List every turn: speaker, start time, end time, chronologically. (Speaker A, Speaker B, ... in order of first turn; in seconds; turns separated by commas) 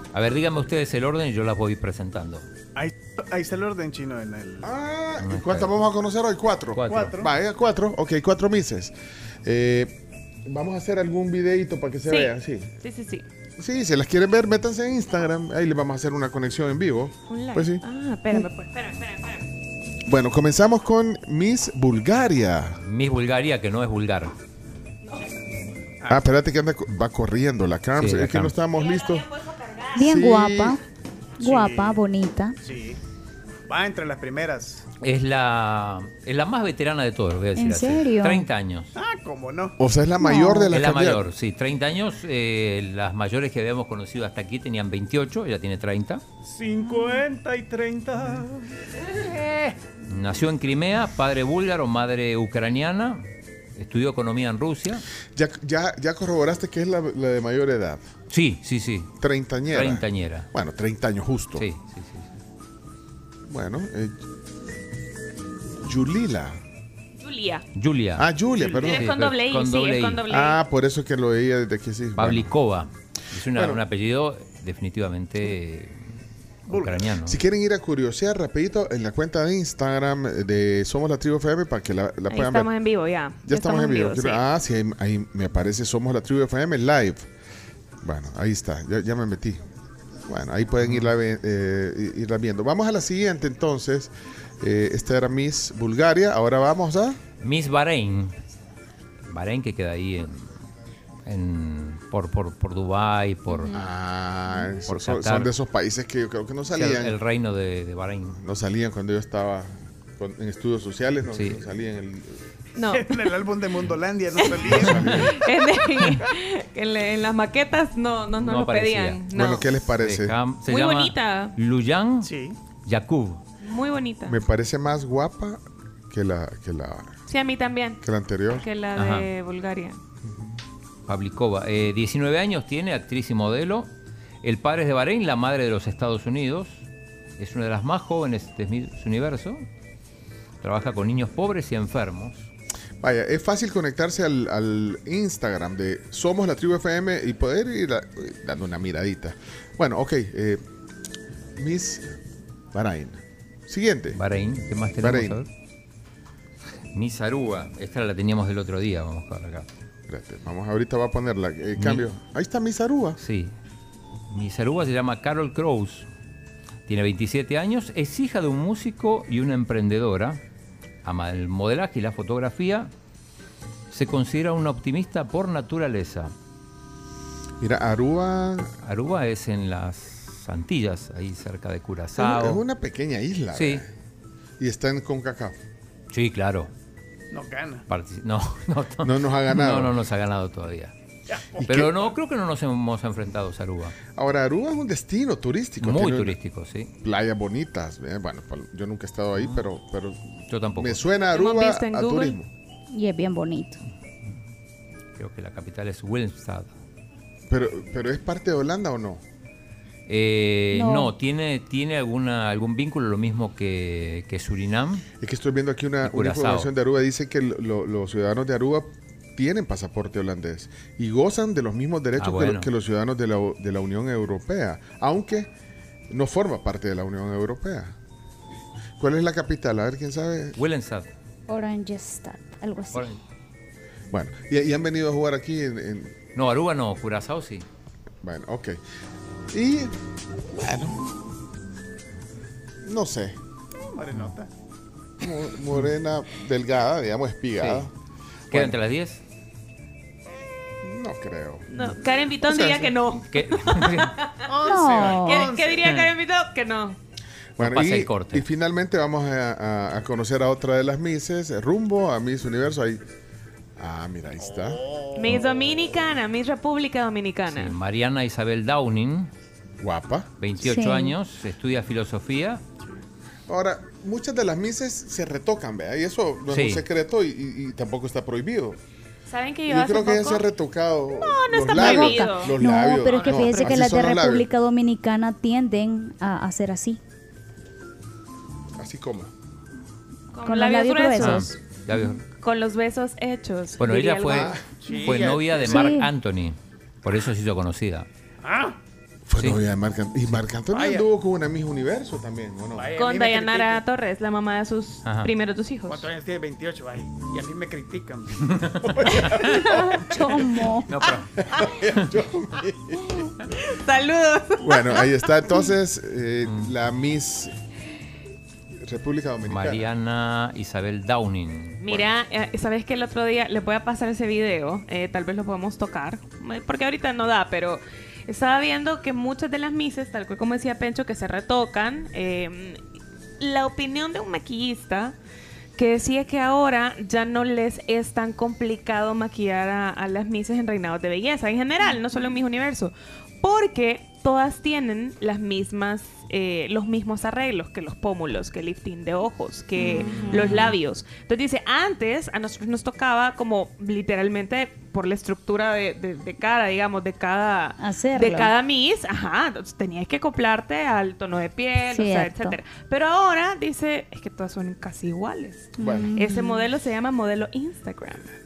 Speaker A: 0.1-2.5, Speaker B: 2.8-4.7, Speaker C: 4.6-9.9, Speaker A: 5.2-5.7, Speaker A: 6.7-7.2, Speaker B: 6.9-7.3, Speaker C: 10.5-12.7, Speaker D: 12.1-13.2, Speaker C: 13.6-17.8, Speaker D: 17.3-19.4, Speaker C: 20.1-22.8, Speaker A: 22.8-24.4, Speaker C: 26.1-29.3, Speaker A: 27.9-28.6, Speaker D: 28.7-30.1, Speaker E: 29.9-30.8, Speaker C: 30.1-30.8, Speaker E: 31.4-32.6, Speaker B: 31.4-32.0, Speaker B: 32.6-33.0, Speaker B: 33.7-34.8, Speaker A: 35.0-38.9, Speaker E: 37.6-38.5, Speaker B: 39.0-39.8, Speaker C: 39.8-41.2, Speaker E: 40.2-40.7, Speaker A: 40.7-46.2, Speaker B: 46.4-49.7, Speaker A: 50.1-53.2, Speaker A: 53.8-55.0, Speaker C: 55.4-58.0, Speaker A: 58.3-59.1, Speaker C: 59.2-61.7, Speaker A: 59.7-60.5, Speaker A: 61.6-62.3, Speaker C: 63.5-64.2, Speaker C: 65.8-66.6, Speaker D: 67.2-67.7, Speaker A: 67.7-68.3, Speaker C: 68.2-69.1, Speaker B: 68.6-68.9, Speaker D: 68.8-70.6, Speaker A: 68.9-70.3, Speaker C: 70.3-72.5, Speaker A: 72.2-76.0, Speaker C: 73.5-73.8, Speaker B: 76.7-77.2, Speaker A: 76.7-77.4, Speaker C: 77.2-82.7, Speaker D: 82.3-84.4, Speaker C: 83.5-87.3, Speaker C: 88.0-89.6, Speaker C: 90.3-97.2, Speaker A: 97.4-98.3, Speaker A: 99.3-100.5, Speaker A: 101.3-103.8, Speaker E: 103.5-103.8, Speaker C: 103.7-107.2, Speaker A: 104.9-105.5, Speaker A: 106.8-108.4, Speaker C: 108.4-112.4, Speaker D: 112.8-113.5, Speaker B: 112.9-115.2, Speaker D: 114.4-119.8, Speaker C: 114.7-115.5, Speaker A: 114.9-115.3, Speaker A: 118.4-119.2, Speaker C: 119.3-120.3, Speaker A: 120.0-122.3, Speaker D: 120.7-121.5, Speaker B: 122.2-122.6, Speaker A: 122.8-123.4, Speaker D: 123.6-124.4, Speaker C: 124.3-127.2, Speaker D: 127.3-128.0, Speaker C: 128.0-128.7, Speaker D: 128.6-130.0, Speaker A: 128.9-129.3, Speaker A: 131.1-133.9, Speaker A: 134.4-136.8, Speaker A: 137.4-139.6, Speaker A: 140.6-142.5, Speaker C: 143.0-150.6, Speaker C: 151.6-152.1, Speaker C: 152.7-154.2, Speaker A: 154.2-155.5, Speaker C: 155.0-155.4, Speaker A: 156.9-159.7, Speaker C: 160.1-163.2, Speaker A: 161.8-162.1, Speaker A: 163.2-163.5, Speaker A: 164.3-166.1, Speaker A: 166.9-170.4, Speaker A: 171.0-172.9, Speaker A: 173.9-176.3, Speaker C: 177.6-178.7, Speaker A: 178.8-182.6, Speaker C: 182.2-183.9, Speaker A: 183.5-183.8, Speaker C: 184.6-185.6, Speaker A: 186.1-186.7, Speaker B: 187.3-187.8, Speaker A: 187.9-190.9, Speaker C: 189.0-189.9, Speaker B: 191.3-192.0, Speaker C: 191.6-191.9, Speaker A: 191.7-193.9, Speaker C: 194.2-196.4, Speaker A: 195.8-196.9, Speaker C: 197.0-202.5, Speaker A: 199.4-199.6, Speaker A: 200.5-201.0, Speaker D: 201.3-202.4, Speaker E: 202.9-203.8, Speaker A: 205.2-206.7, Speaker C: 207.5-209.2, Speaker A: 210.1-215.0, Speaker E: 210.7-211.1, Speaker C: 215.2-225.5, Speaker A: 216.0-216.7, Speaker A: 222.2-222.7, Speaker C: 226.1-227.9, Speaker C: 229.0-230.6, Speaker A: 230.6-231.1, Speaker E: 231.5-233.1, Speaker A: 232.9-233.2, Speaker C: 234.1-236.2, Speaker A: 236.3-237.7, Speaker C: 238.2-238.8, Speaker C: 239.5-239.9, Speaker C: 240.5-241.1, Speaker C: 242.8-243.4, Speaker B: 243.8-244.5, Speaker C: 245.2-247.9, Speaker A: 247.6-247.9, Speaker A: 248.5-249.2, Speaker C: 250.8-251.8, Speaker D: 251.7-257.0, Speaker C: 252.4-253.0, Speaker A: 253.1-254.2, Speaker B: 254.5-255.9, Speaker E: 254.6-255.5, Speaker A: 255.8-256.1, Speaker C: 257.6-263.0, Speaker A: 257.6-258.5, Speaker C: 263.8-264.8, Speaker B: 264.4-265.6, Speaker D: 265.1-267.8, Speaker A: 267.5-269.3, Speaker C: 269.8-270.3, Speaker A: 270.4-272.6, Speaker E: 270.6-271.2, Speaker C: 273.5-278.8, Speaker A: 276.5-276.8, Speaker D: 279.3-280.5, Speaker C: 279.7-284.5, Speaker D: 281.2-283.8, Speaker E: 281.7-287.0, Speaker C: 288.8-289.3, Speaker D: 290.3-291.5, Speaker E: 290.4-291.6, Speaker A: 291.1-292.2, Speaker D: 292.3-295.4, Speaker A: 293.8-298.1, Speaker C: 294.3-294.6, Speaker B: 294.8-295.9, Speaker E: 295.6-296.1, Speaker B: 298.4-298.8, Speaker C: 299.3-302.9, Speaker B: 300.7-301.1, Speaker B: 302.8-303.8, Speaker D: 302.9-306.1, Speaker A: 305.1-305.3, Speaker B: 305.9-310.5, Speaker A: 308.5-309.4, Speaker E: 309.6-310.9, Speaker A: 310.8-311.3, Speaker C: 311.4-313.3, Speaker D: 311.5-311.9, Speaker B: 311.8-312.8, Speaker D: 313.0-315.4, Speaker C: 314.6-317.5, Speaker A: 316.4-316.7, Speaker C: 318.8-319.9, Speaker A: 319.5-321.8, Speaker D: 321.8-332.8, Speaker D: 333.4-335.2, Speaker D: 335.8-368.3, Speaker E: 350.0-350.6, Speaker E: 357.8-358.5, Speaker E: 361.9-362.6, Speaker E: 365.8-366.7, Speaker C: 365.8-366.1